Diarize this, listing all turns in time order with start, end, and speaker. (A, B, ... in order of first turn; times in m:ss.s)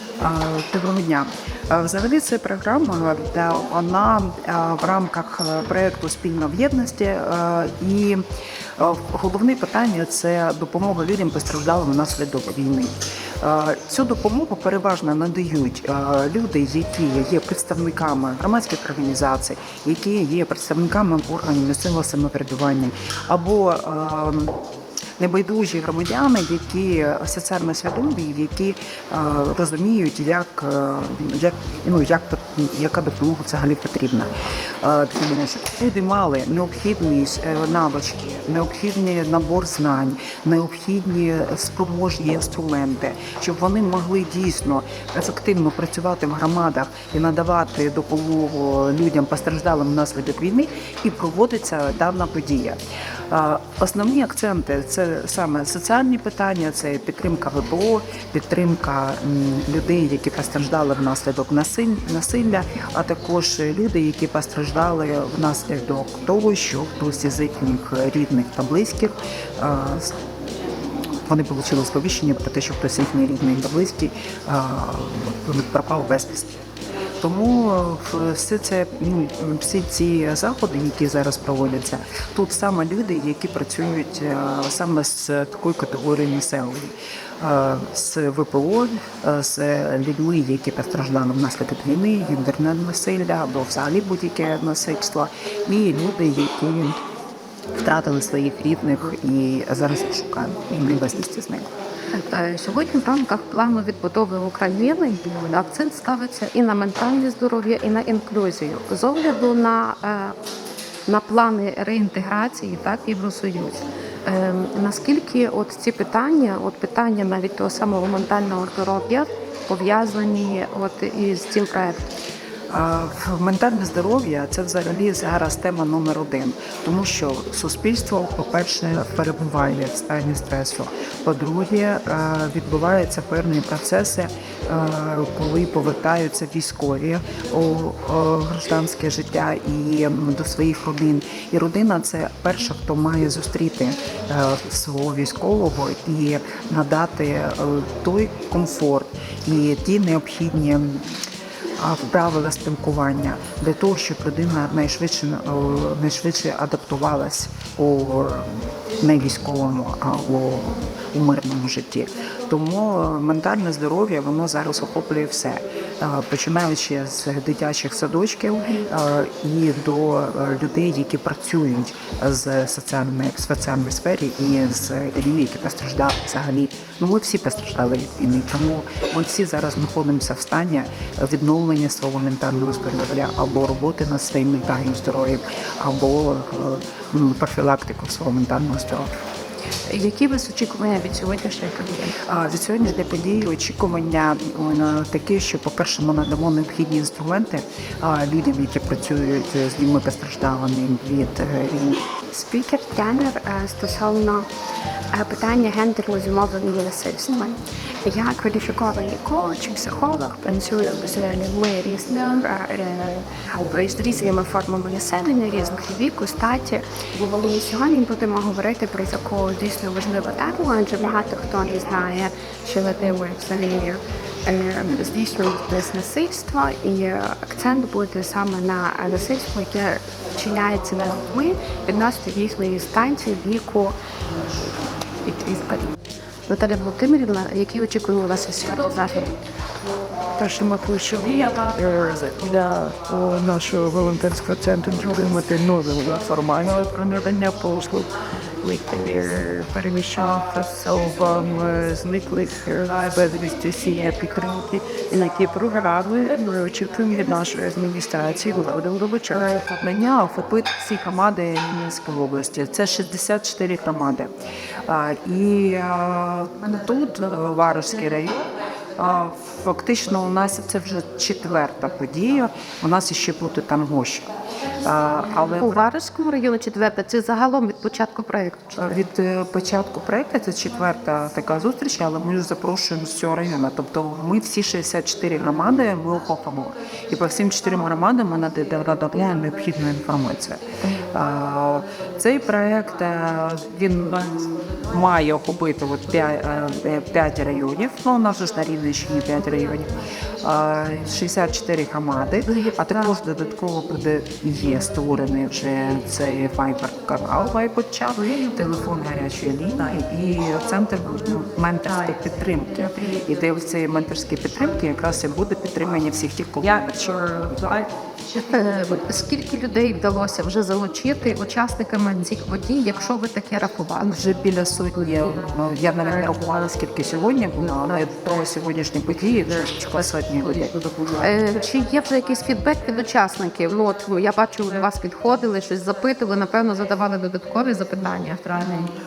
0:00.2-0:08.2 A
0:08.8-0:24.6 A
0:25.2-0:34.3 A
0:34.8-1:10.2 A
1:10.8-1:16.5 A
1:17.2-1:37.0 A
1:37.8-1:41.7 A
1:42.1-1:50.4 B
1:51.1-2:02.1 B
2:02.7-2:31.2 A
2:31.8-3:09.1 A
3:09.9-3:12.2 B
3:12.2-3:22.2 A
3:22.3-3:24.5 C
3:25.1-3:54.0 C
3:55.3-3:55.8 C
3:56.5-3:58.6 B
3:57.7-3:58.1 C
3:58.6-3:59.3 C
4:00.4-4:19.5 D
4:19.5-4:24.3 A
4:24.8-4:34.3 A
4:34.8-4:35.8 A
4:35.6-4:38.8 B
4:38.8-5:17.9 A
5:18.2-5:24.2 B
5:24.1-5:30.8 A
5:31.1-5:38.9 B